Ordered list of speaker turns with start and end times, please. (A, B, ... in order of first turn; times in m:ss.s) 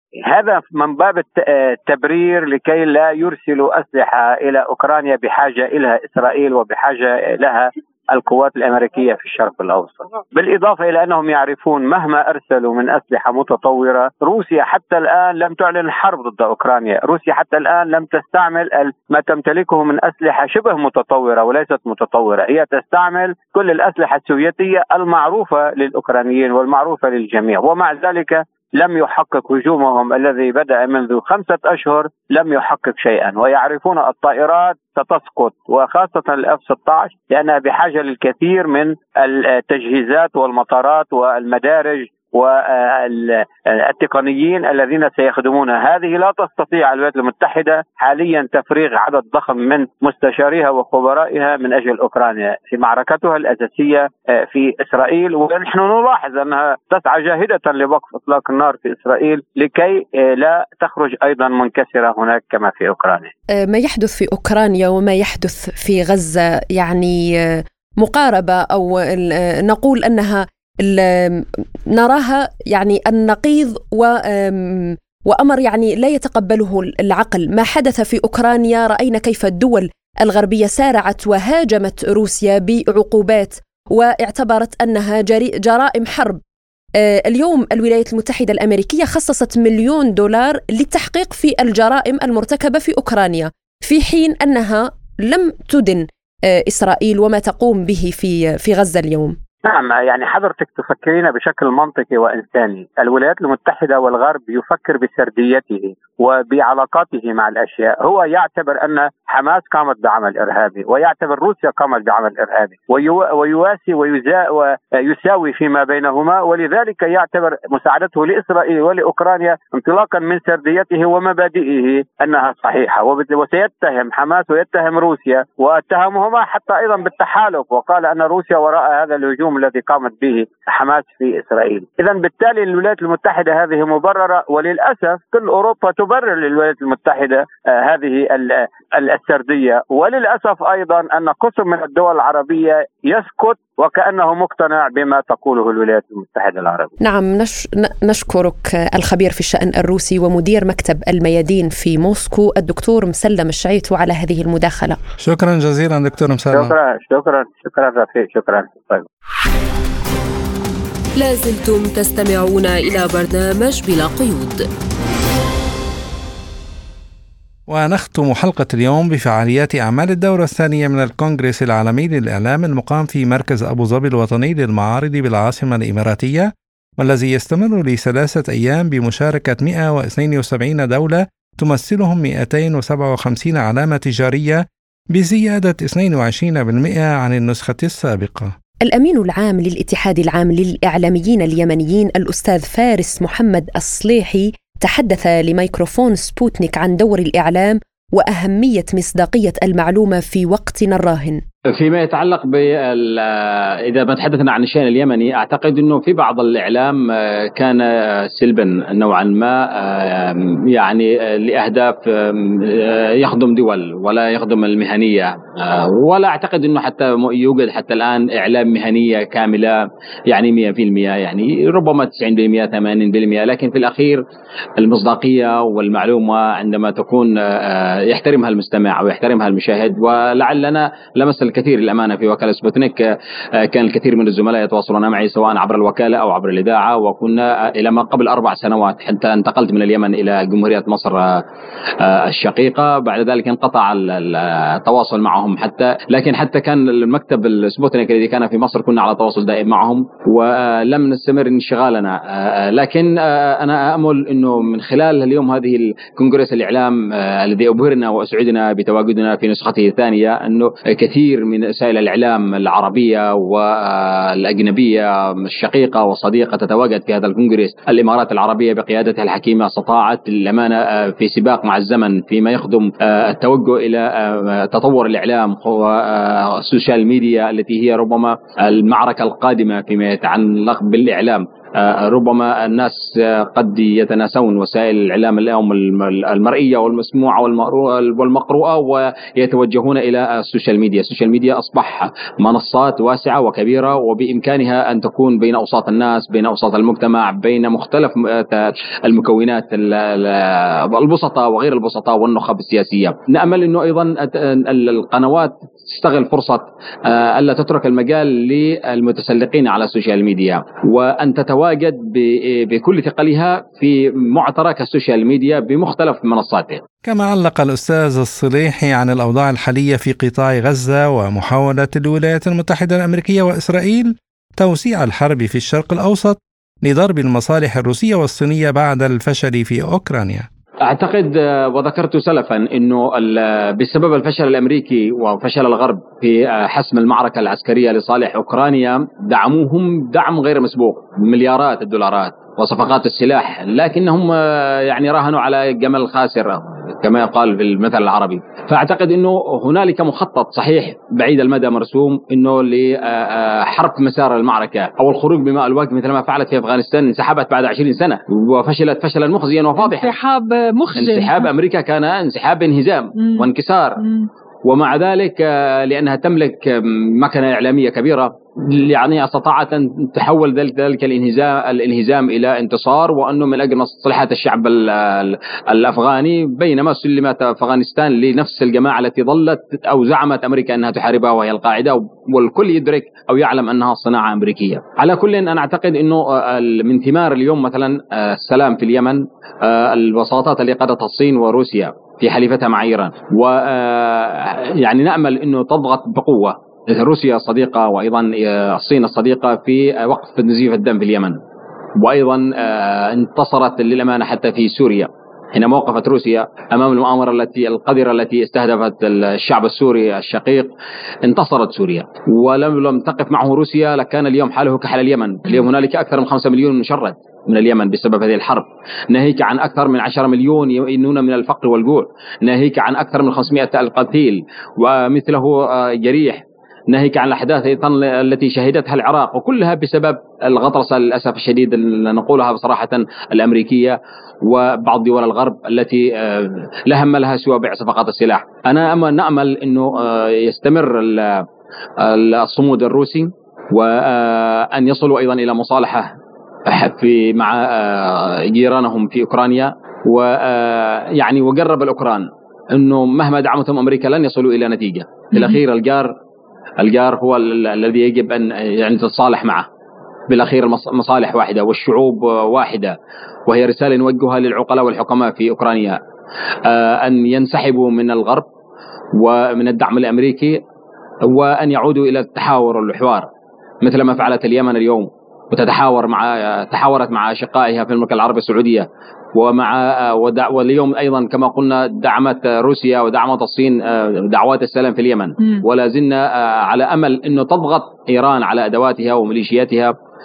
0:00.2-1:03.3 A
1:03.6-1:26.4 B
1:27.0-1:39.4 B
1:39.6-2:26.9 A
2:27.0-2:35.0 B
2:35.2-2:36.7 C
2:36.5-2:39.1 A
2:41.2-2:44.6 D
2:47.7-3:08.5 C
3:08.8-3:21.4 B
3:21.7-3:44.2 E
3:44.8-4:01.4 E
4:02.0-5:16.8 E
5:17.0-5:30.5 C
5:30.8-6:00.2 E
5:59.8-6:01.5 F
6:00.9-6:04.0 E
6:03.1-6:04.3 F
6:04.6-6:41.4 E
6:42.0-6:50.7 E
6:51.3-7:21.5 E
7:22.0-7:26.2 E
7:26.7-7:36.1 E
7:35.3-7:35.6 F
7:36.8-7:39.7 E
7:40.3-7:46.0 E
7:46.6-7:48.5 E
7:49.2-7:50.6 E
7:51.2-7:53.3 E
7:53.8-8:09.9 E
8:05.4-8:05.6 F